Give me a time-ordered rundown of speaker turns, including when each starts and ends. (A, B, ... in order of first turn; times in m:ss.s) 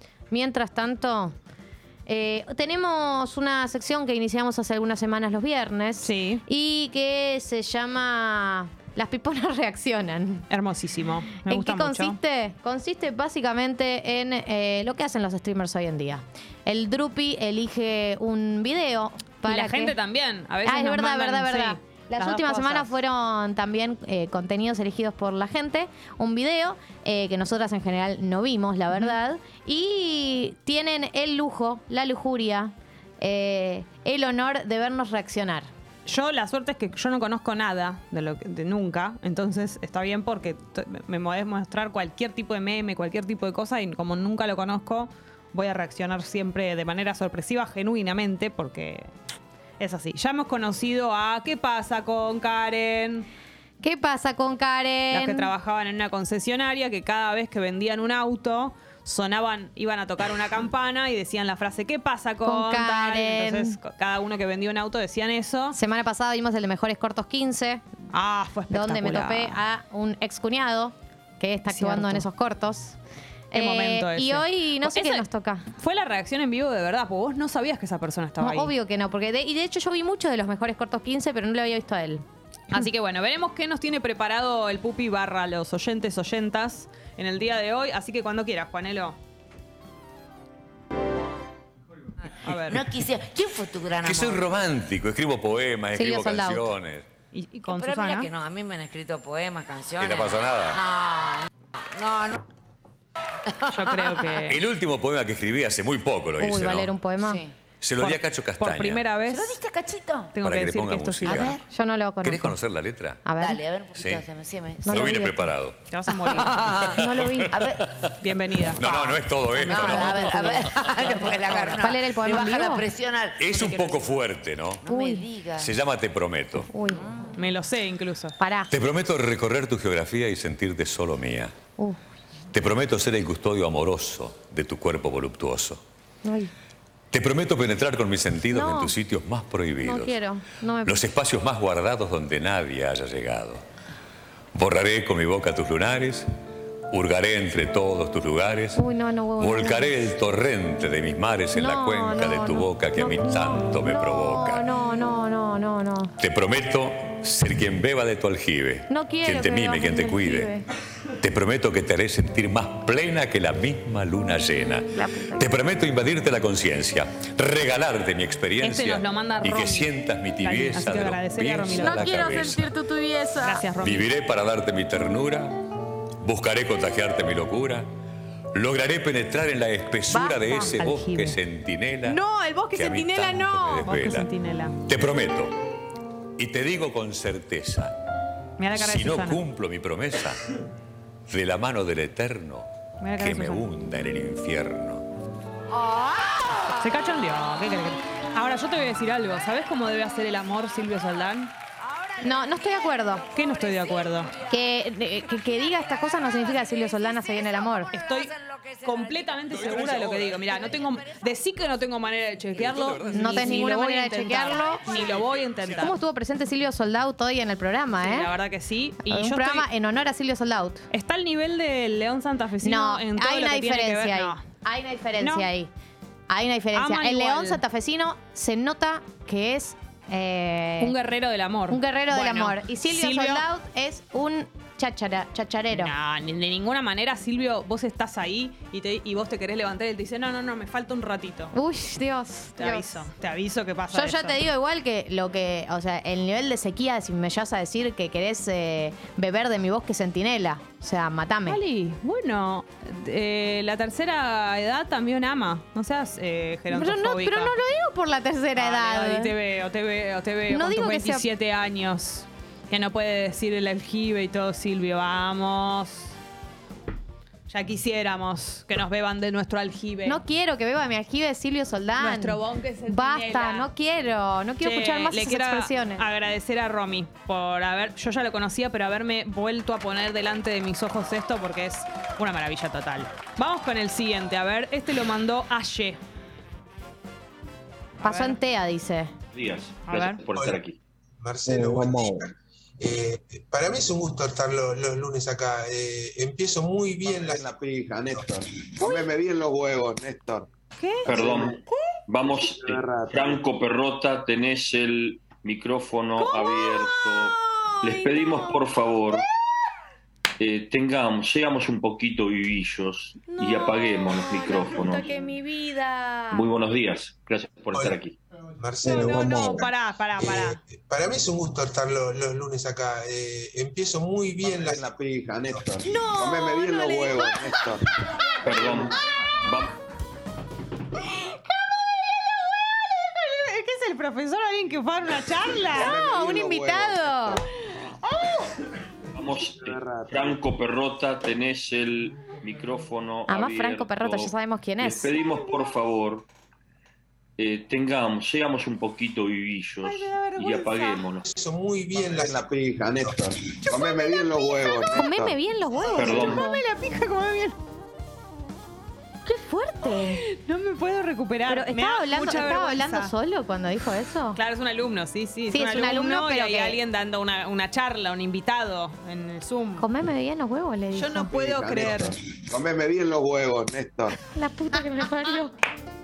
0:00.3-0:01.4 A
0:02.1-0:10.5 A
0:06.0-0:06.4 B
0:10.5-0:12.2 B
0:11.3-0:20.0 A
0:19.4-0:22.9 B
0:20.6-0:35.7 A
0:36.1-0:49.1 B
0:49.8-0:53.3 B
0:53.8-0:55.5 A
0:55.1-1:05.8 B
1:02.4-1:03.8 A
1:05.7-1:07.8 A
1:08.1-1:09.6 B
1:08.7-1:13.0 A
1:11.7-1:12.3 B
1:13.5-1:15.6 A
1:13.5-1:18.7 B
1:18.4-1:22.9 A
1:22.7-1:29.2 B
1:32.4-1:32.9 B
1:32.6-1:34.4 C
1:34.0-1:37.1 D
1:36.0-1:36.7 A
1:37.3-1:38.3 B
1:37.7-1:42.4 C
1:40.0-1:40.8 D
1:43.7-1:44.6 B
1:44.5-1:46.9 D
1:46.4-1:47.4 A
1:47.2-1:47.5 C
1:47.8-1:49.0 D
1:48.0-1:49.6 B
1:49.3-1:50.4 C
1:50.3-1:51.6 B
1:50.4-1:51.6 D
1:51.3-1:51.6 C
1:51.7-1:52.6 A
1:52.2-1:53.3 D
1:53.2-1:53.7 A
1:53.4-1:55.1 C
1:53.9-1:54.3 D
1:54.8-1:55.5 A
1:54.8-1:55.8 D
1:55.9-1:56.8 B
1:56.5-1:56.8 C
1:56.7-1:57.9 D
1:56.9-1:57.6 A
1:57.5-1:57.8 C
1:58.2-1:58.8 B
1:58.7-2:00.4 D
1:58.9-1:59.1 A
1:59.5-2:00.3 B
1:59.7-2:02.9 A
1:59.8-2:03.7 C
2:03.4-2:04.8 D
2:03.6-2:04.0 B
2:04.8-2:05.7 C
2:04.9-2:05.3 A
2:05.5-2:06.7 D
2:06.7-2:07.0 A
2:07.4-2:08.4 B
2:08.4-2:08.7 A
2:08.7-2:11.5 D
2:12.5-2:15.8 D
2:16.2-2:16.5 A
2:17.1-2:20.2 D
2:18.5-2:18.9 A
2:19.8-2:21.0 A
2:20.8-2:23.6 D
2:24.5-2:26.3 D
2:26.9-2:28.8 D
2:28.8-2:30.0 A
2:29.4-2:34.7 D
2:31.5-2:36.1 A
2:36.2-2:40.6 D
2:38.9-2:40.7 A
2:41.2-2:52.7 D
2:44.9-2:45.5 A
2:48.6-2:52.2 B
2:51.8-2:53.6 A
2:53.4-2:54.1 B
2:53.8-2:55.6 D
2:56.2-2:57.9 D
2:58.5-3:04.3 D
3:00.1-3:00.8 A
3:00.8-3:01.4 B
3:02.1-3:03.9 A
3:03.8-3:04.8 B
3:04.8-3:05.5 D
3:06.4-3:08.0 D
3:08.6-3:09.4 B
3:08.8-3:10.4 D
3:11.3-3:15.0 D
3:13.0-3:13.6 B
3:16.7-3:21.5 B
3:22.2-3:23.2 A
3:23.4-3:24.3 B
3:24.5-3:27.9 A
3:27.9-3:36.0 B
3:29.5-3:30.4 D
3:32.6-3:33.7 D
3:33.1-3:34.9 A
3:35.8-3:38.3 A
3:38.0-3:39.7 B
3:39.0-3:40.9 A
3:40.9-3:44.4 B
3:42.6-3:45.7 A
3:45.2-3:45.5 B
3:46.3-3:50.9 A
3:46.7-3:47.6 B
3:50.8-3:53.4 B
3:51.7-3:55.9 A
3:55.7-4:01.5 B
4:01.5-4:03.0 A
4:02.6-4:04.4 B
4:03.9-4:11.6 A
4:11.5-4:17.5 B
4:16.7-4:19.4 A
4:18.6-4:26.2 B
4:20.5-4:21.3 A
4:27.5-4:30.2 B
4:30.0-4:36.0 A
4:32.0-4:33.7 B
4:34.6-4:46.0 B
4:48.0-4:48.4 B
4:48.0-4:49.2 A
4:49.3-4:50.8 E
4:49.9-4:50.2 B
4:50.4-4:50.6 F
4:51.2-4:58.4 F
4:57.1-5:00.5 G
5:00.8-5:01.1 B
5:01.0-5:09.2 E
5:02.5-5:03.4 G
5:06.2-5:06.7 A
5:07.7-5:08.6 A
5:10.4-5:15.2 E
5:13.3-5:16.5 A
5:16.3-5:18.2 E
5:17.7-5:18.0 F
5:18.6-5:24.9 F
5:18.8-5:20.6 B
5:24.5-5:27.8 G
5:25.9-5:27.4 B
5:25.9-5:26.2 A
5:28.4-5:29.7 E
5:31.2-5:36.0 B
5:35.6-5:37.4 G
5:35.7-5:37.4 A
5:38.0-5:38.4 B
5:39.2-5:46.3 E
5:39.5-5:40.4 G
5:43.3-5:45.2 A
5:47.4-5:51.3 E
5:49.8-5:51.0 B
5:51.2-5:53.2 F
5:52.0-5:55.4 G
5:54.4-5:56.6 A
5:55.9-5:56.4 E
5:56.0-5:57.6 B
5:59.2-6:00.2 A
6:00.1-6:03.1 B
6:01.5-6:04.4 A
6:04.3-6:09.9 B
6:05.5-6:06.8 A
6:09.8-6:11.4 A
6:10.9-6:12.1 B
6:11.3-6:14.2 G
6:14.3-6:15.5 A